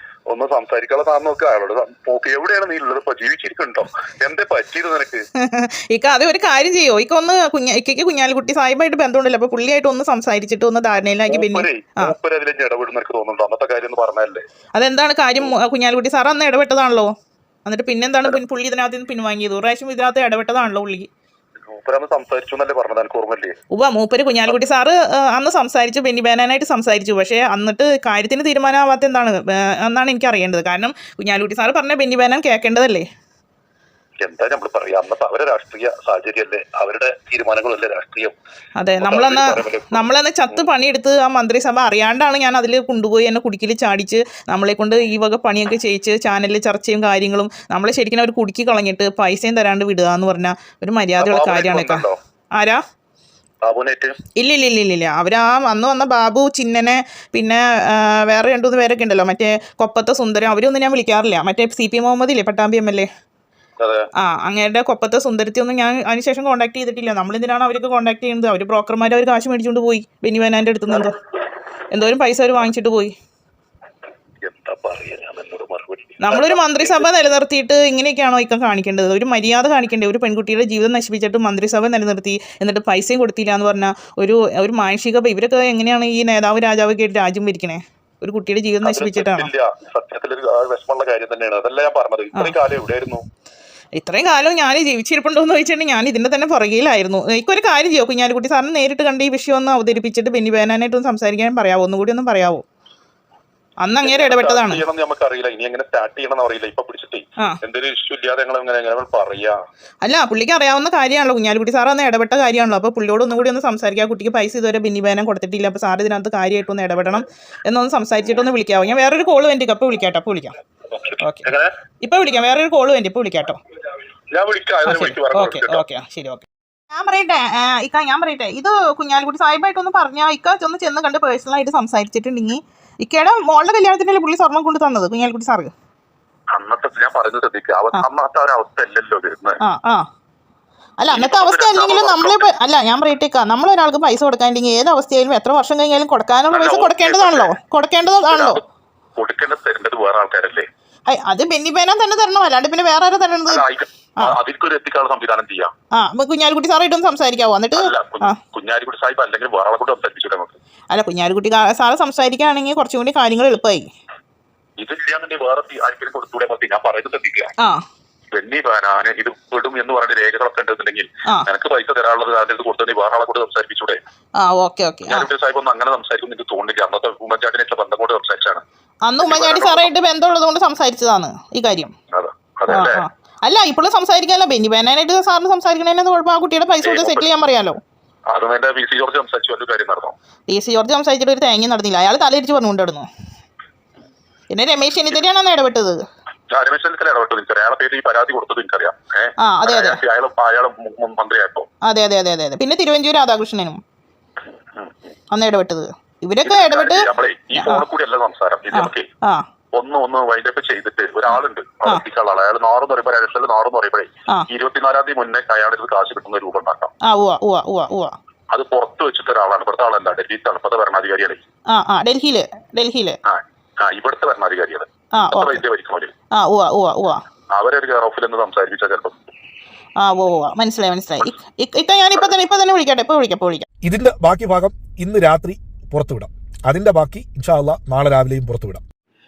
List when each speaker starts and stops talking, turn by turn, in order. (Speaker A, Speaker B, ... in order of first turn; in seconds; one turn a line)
Speaker A: 0.3-5.2
Speaker B: 5.4-12.1
Speaker A: 11.3-14.4
Speaker B: 14.7-17.1
Speaker B: 17.6-21.1
Speaker A: 21.7-23.6
Speaker B: 23.7-33.0
Speaker A: 34.2-38.3
Speaker B: 38.8-52.8
Speaker A: 39.0-40.6
Speaker A: 51.2-52.1
Speaker A: 53.6-54.1
Speaker B: 54.4-63.1
Speaker A: 63.8-64.1
Speaker B: 64.2-71.2
Speaker B: 71.9-73.1
Speaker A: 74.4-77.1
Speaker B: 76.2-89.5
Speaker A: 88.8-93.2
Speaker B: 93.9-102.6
Speaker B: 103.8-104.8
Speaker A: 104.0-109.6
Speaker B: 110.0-120.6
Speaker A: 120.9-121.7
Speaker B: 121.2-121.4
Speaker B: 122.0-123.6
Speaker A: 124.3-125.8
Speaker B: 124.8-135.7
Speaker A: 136.5-139.6
Speaker B: 139.6-140.0
Speaker B: 141.0-148.6
Speaker A: 141.1-142.5
Speaker A: 146.5-147.5
Speaker A: 148.3-148.6
Speaker A: 149.2-150.7
Speaker B: 151.1-153.6
Speaker A: 153.5-155.7
Speaker B: 155.9-158.3
Speaker A: 157.7-160.6
Speaker B: 160.9-163.9
Speaker A: 164.8-167.5
Speaker A: 168.3-174.0
Speaker B: 174.4-175.3
Speaker A: 175.1-178.6
Speaker B: 179.0-181.9
Speaker A: 179.2-179.9
Speaker A: 182.1-183.0
Speaker B: 182.7-187.8
Speaker A: 186.8-187.2
Speaker A: 188.3-190.1
Speaker B: 190.5-193.1
Speaker B: 194.5-196.0
Speaker A: 196.5-201.7
Speaker B: 199.4-200.0
Speaker B: 201.8-203.8
Speaker B: 205.3-207.8
Speaker A: 206.4-209.1
Speaker B: 208.7-209.4
Speaker A: 209.7-216.9
Speaker B: 217.0-218.2
Speaker A: 218.5-221.4
Speaker B: 221.7-223.2
Speaker A: 223.2-226.1
Speaker B: 225.1-225.6
Speaker B: 226.3-227.2
Speaker A: 227.5-229.2
Speaker B: 230.0-233.7
Speaker C: 233.8-238.8